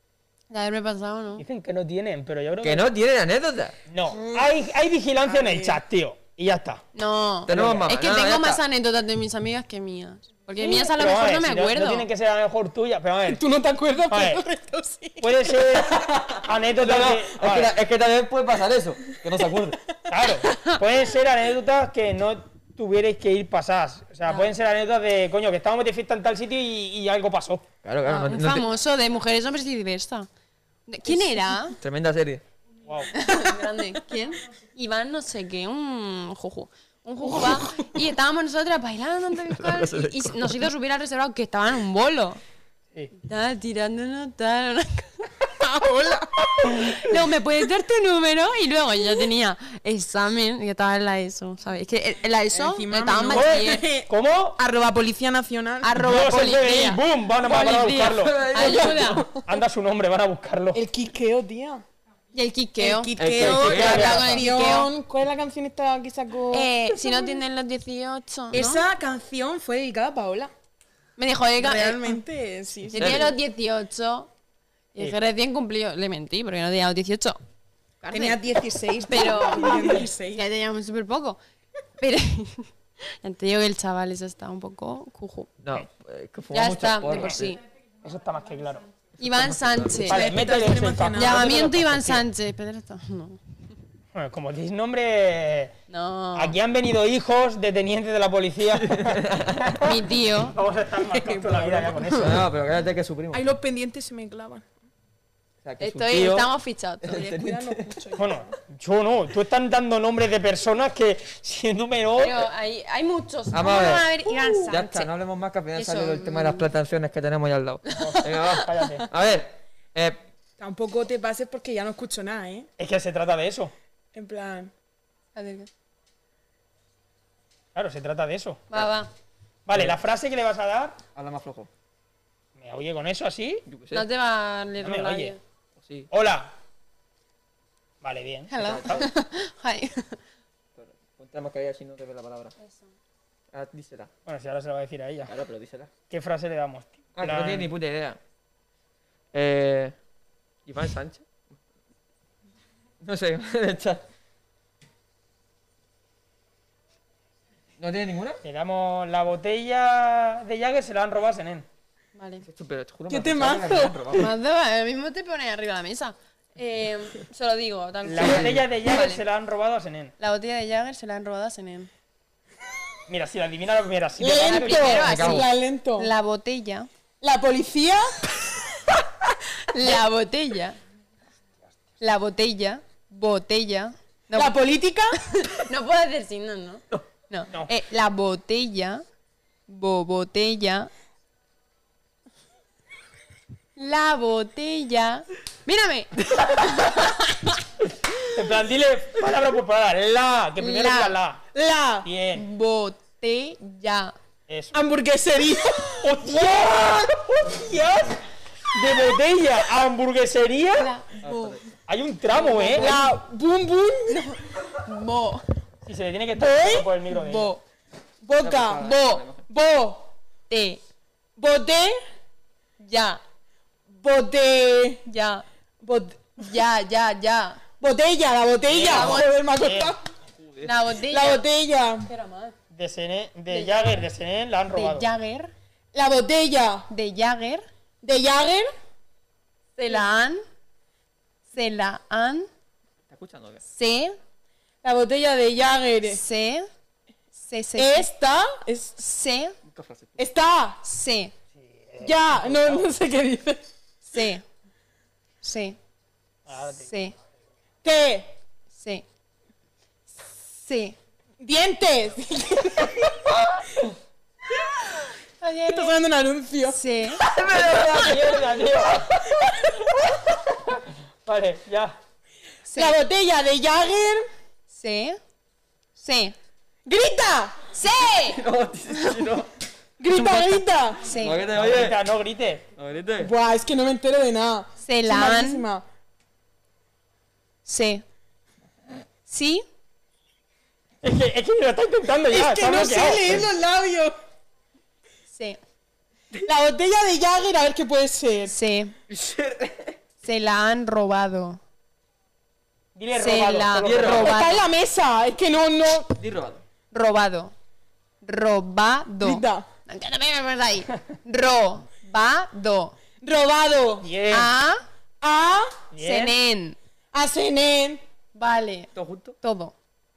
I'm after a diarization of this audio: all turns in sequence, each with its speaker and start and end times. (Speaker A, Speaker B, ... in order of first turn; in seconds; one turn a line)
Speaker A: 0.5-1.4
Speaker B: 1.4-2.9
Speaker C: 2.6-3.8
Speaker B: 3.9-6.8
Speaker D: 4.1-4.5
Speaker D: 5.3-5.8
Speaker A: 7.0-12.1
Speaker C: 7.5-8.6
Speaker B: 7.5-7.9
Speaker B: 10.6-13.4
Speaker D: 13.3-15.5
Speaker B: 14.1-14.4
Speaker B: 15.2-17.8
Speaker C: 15.9-19.8
Speaker B: 20.1-27.7
Speaker C: 27.8-28.7
Speaker A: 28.1-30.3
Speaker A: 30.9-31.8
Speaker C: 31.8-32.4
Speaker B: 32.9-33.1
Speaker A: 33.1-42.4
Speaker D: 33.5-33.7
Speaker C: 39.6-40.6
Speaker A: 43.2-45.3
Speaker D: 45.6-46.5
Speaker A: 46.7-53.9
Speaker D: 52.5-56.0
Speaker B: 53.3-54.6
Speaker A: 55.8-59.2
Speaker B: 56.0-58.4
Speaker C: 57.6-59.3
Speaker B: 59.4-60.8
Speaker D: 60.7-61.8
Speaker A: 62.3-64.9
Speaker D: 62.8-67.4
Speaker C: 63.2-64.4
Speaker B: 63.7-64.2
Speaker A: 66.5-68.8
Speaker D: 68.5-70.5
Speaker A: 71.2-72.2
Speaker D: 71.6-73.3
Speaker A: 72.9-74.3
Speaker C: 72.9-73.3
Speaker A: 75.0-77.4
Speaker A: 78.0-78.4
Speaker D: 78.1-80.4
Speaker A: 79.0-81.4
Speaker A: 82.0-85.5
Speaker C: 85.6-87.6
Speaker A: 86.5-87.6
Speaker B: 88.0-88.9
Speaker A: 89.2-90.3
Speaker C: 89.4-90.0
Speaker D: 90.0-91.5
Speaker B: 90.0-92.2
Speaker A: 91.1-93.4
Speaker B: 94.1-95.8
Speaker A: 95.9-96.6
Speaker B: 96.3-102.5
Speaker C: 98.8-99.7
Speaker A: 99.8-100.6
Speaker D: 101.1-102.0
Speaker C: 102.2-103.5
Speaker D: 103.3-104.7
Speaker C: 105.6-106.5
Speaker A: 105.8-107.4
Speaker C: 107.0-107.9
Speaker D: 107.2-108.5
Speaker B: 108.2-112.5
Speaker A: 112.2-115.1
Speaker C: 113.5-114.1
Speaker D: 114.3-114.7
Speaker C: 114.7-120.2
Speaker A: 115.8-116.7
Speaker A: 117.9-118.5
Speaker B: 118.0-119.1
Speaker D: 120.6-122.7
Speaker B: 122.8-123.7
Speaker D: 124.1-124.7
Speaker A: 125.3-125.7
Speaker B: 127.8-128.7
Speaker A: 128.7-129.1
Speaker B: 129.7-131.0
Speaker C: 131.2-131.7
Speaker B: 132.6-133.7
Speaker C: 133.7-134.1
Speaker A: 133.9-135.4
Speaker B: 134.8-135.3
Speaker C: 135.8-136.1
Speaker B: 136.1-136.5
Speaker B: 138.0-139.1
Speaker A: 138.5-140.2
Speaker C: 138.6-139.1
Speaker C: 140.8-142.5
Speaker A: 142.6-142.9
Speaker C: 143.5-144.1
Speaker B: 144.3-145.3
Speaker C: 145.3-145.9
Speaker B: 146.1-147.7
Speaker C: 147.2-148.2
Speaker C: 149.3-149.9
Speaker C: 150.7-151.2
Speaker C: 153.0-154.0
Speaker C: 157.8-158.4
Speaker B: 158.4-161.7
Speaker A: 162.2-162.5
Speaker C: 162.5-164.3
Speaker D: 163.1-164.1
Speaker A: 164.1-169.2
Speaker B: 168.1-170.1
Speaker C: 168.2-168.6
Speaker A: 170.2-171.9
Speaker B: 173.1-175.0
Speaker D: 174.2-176.1
Speaker A: 174.3-176.9
Speaker C: 174.8-175.5
Speaker D: 177.2-178.1
Speaker A: 179.7-180.8
Speaker A: 182.0-184.6
Speaker D: 184.3-185.2
Speaker A: 185.2-189.0
Speaker A: 189.7-190.9
Speaker A: 193.8-197.3
Speaker B: 198.3-201.4
Speaker A: 200.6-201.2
Speaker D: 201.5-202.1
Speaker B: 202.0-202.4
Speaker A: 202.3-204.2
Speaker B: 204.5-204.8
Speaker D: 204.7-206.2
Speaker B: 206.0-210.9
Speaker A: 210.8-211.6
Speaker C: 211.2-211.6
Speaker B: 211.9-213.0
Speaker A: 212.3-213.1
Speaker D: 212.5-214.4
Speaker A: 214.1-215.5
Speaker B: 215.8-217.5
Speaker D: 216.4-217.6
Speaker A: 217.2-217.6
Speaker D: 218.2-218.9
Speaker C: 218.4-219.4
Speaker A: 218.8-219.2
Speaker D: 219.5-220.1
Speaker A: 220.5-220.8
Speaker D: 221.4-222.0
Speaker A: 222.8-223.2
Speaker D: 223.9-225.0
Speaker A: 225.1-225.4
Speaker D: 225.8-226.3
Speaker A: 226.4-227.6
Speaker D: 227.8-230.0
Speaker B: 228.7-230.0
Speaker A: 228.9-229.3
Speaker C: 230.4-230.7
Speaker A: 230.6-231.4
Speaker D: 231.1-232.1
Speaker A: 232.0-232.6
Speaker B: 232.7-235.1
Speaker A: 233.5-234.0
Speaker A: 234.7-235.5
Speaker D: 235.9-236.9
Speaker A: 236.9-237.7
Speaker D: 238.0-238.7
Speaker A: 239.8-240.4
Speaker A: 241.5-242.5
Speaker C: 243.1-243.6
Speaker A: 243.7-244.2
Speaker D: 244.8-246.2
Speaker A: 246.1-246.7
Speaker A: 247.4-248.1
Speaker D: 247.8-249.0
Speaker A: 249.0-249.6
Speaker C: 249.7-250.2
Speaker D: 250.2-250.8
Speaker A: 250.8-251.3
Speaker B: 251.6-252.9
Speaker D: 252.0-253.6
Speaker A: 254.1-254.4
Speaker A: 255.4-255.8
Speaker B: 256.5-256.9
Speaker A: 256.8-257.1
Speaker D: 257.8-258.3
Speaker A: 258.7-259.1
Speaker A: 260.5-261.0
Speaker D: 261.4-263.1
Speaker A: 265.4-266.0
Speaker D: 265.7-266.8
Speaker A: 266.7-267.2
Speaker C: 267.2-268.5
Speaker B: 267.5-269.3
Speaker B: 270.5-272.0
Speaker A: 272.7-273.0
Speaker D: 272.8-274.3
Speaker A: 274.7-275.2
Speaker A: 276.0-276.4
Speaker D: 276.9-277.7
Speaker A: 277.7-278.4
Speaker C: 278.1-279.5
Speaker D: 280.0-281.1
Speaker A: 281.0-281.4
Speaker C: 281.1-282.0
Speaker B: 281.5-282.6
Speaker C: 282.8-283.3
Speaker D: 283.2-285.9
Speaker A: 284.8-285.7
Speaker A: 287.7-288.0
Speaker A: 289.3-289.6
Speaker B: 291.0-293.5
Speaker D: 292.3-294.2
Speaker A: 295.3-295.6
Speaker D: 296.4-298.5
Speaker A: 298.5-298.9
Speaker C: 299.1-300.0
Speaker A: 300.2-301.6
Speaker B: 302.9-304.3
Speaker A: 303.1-304.6
Speaker C: 303.8-304.4
Speaker D: 303.9-306.2
Speaker C: 306.2-306.6
Speaker A: 306.9-307.5
Speaker A: 308.2-313.0
Speaker D: 309.2-309.7
Speaker D: 313.2-314.1
Speaker B: 314.0-314.5
Speaker A: 314.3-314.8
Speaker D: 315.2-315.9
Speaker B: 315.9-316.4
Speaker A: 316.0-316.8
Speaker D: 317.1-318.0
Speaker A: 318.4-318.9
Speaker C: 318.9-319.4
Speaker A: 319.4-319.7